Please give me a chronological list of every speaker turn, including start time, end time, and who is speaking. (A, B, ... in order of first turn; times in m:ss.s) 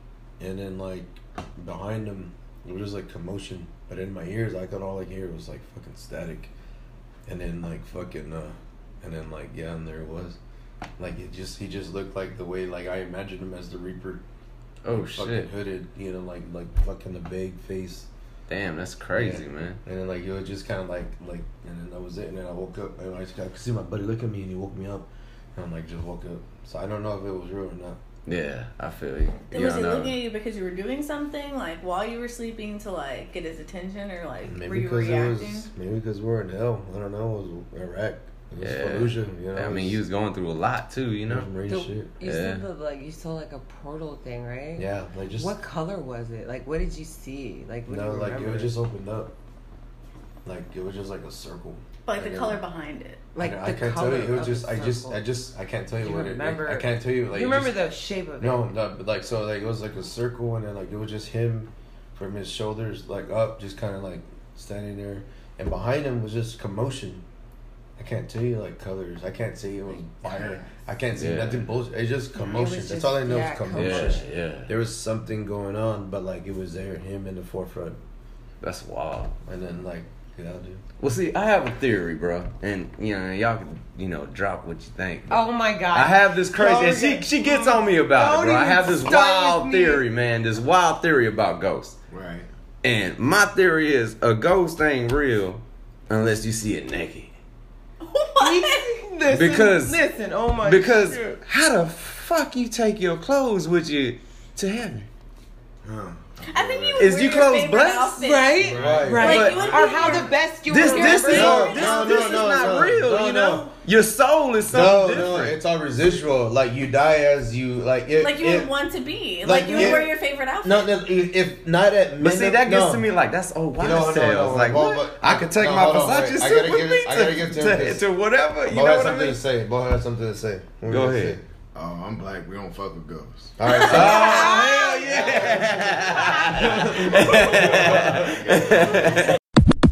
0:00.4-0:06.5 A
0:07.2-0:10.4 A
0:11.0-0:14.2 A
0:14.8-0:15.5 B
0:14.9-0:18.1 A
0:18.5-0:19.8 B
0:19.1-0:28.0 A
0:28.2-0:30.2 B
0:29.5-0:35.7 C
0:34.4-0:40.0 A
0:38.6-0:41.5 B
0:41.2-0:42.1 A
0:41.6-0:48.7 D
0:42.2-0:42.6 B
0:44.8-0:45.6 A
0:47.9-0:49.3 A
0:50.4-0:52.6 A
0:52.1-0:53.2 C
0:53.3-0:55.2 D
0:53.4-0:57.8 A
0:56.0-0:58.7 D
0:58.4-1:07.2 A
1:08.0-1:18.0 A
1:10.2-1:10.7 E
1:11.1-1:11.7 B
1:12.3-1:14.2 D
1:13.7-1:14.7 B
1:18.6-1:19.3 B
1:19.5-1:20.8 A
1:21.0-1:31.9 B
1:25.3-1:30.0 D
1:32.1-1:32.5 E
1:32.8-1:37.3 B
1:38.0-1:38.9 C
1:38.4-1:41.4 D
1:39.3-1:40.0 B
1:40.6-1:45.1 B
1:45.8-1:47.2 E
1:46.5-1:52.4 C
1:47.0-1:48.2 B
1:48.2-1:51.7 D
1:48.5-1:50.3 E
1:48.8-1:49.4 A
1:49.2-1:49.7 B
1:50.6-1:55.6 B
1:51.3-1:53.7 A
1:54.6-1:58.7 A
1:58.2-2:00.9 C
1:59.4-2:03.0 A
2:02.2-2:09.4 B
2:03.8-2:08.0 A
2:08.7-2:11.4 A
2:10.9-2:11.4 B
2:11.7-2:13.6 E
2:13.6-2:15.7 A
2:13.7-2:19.2 B
2:13.8-2:14.3 C
2:14.0-2:15.6 D
2:16.8-2:19.0 E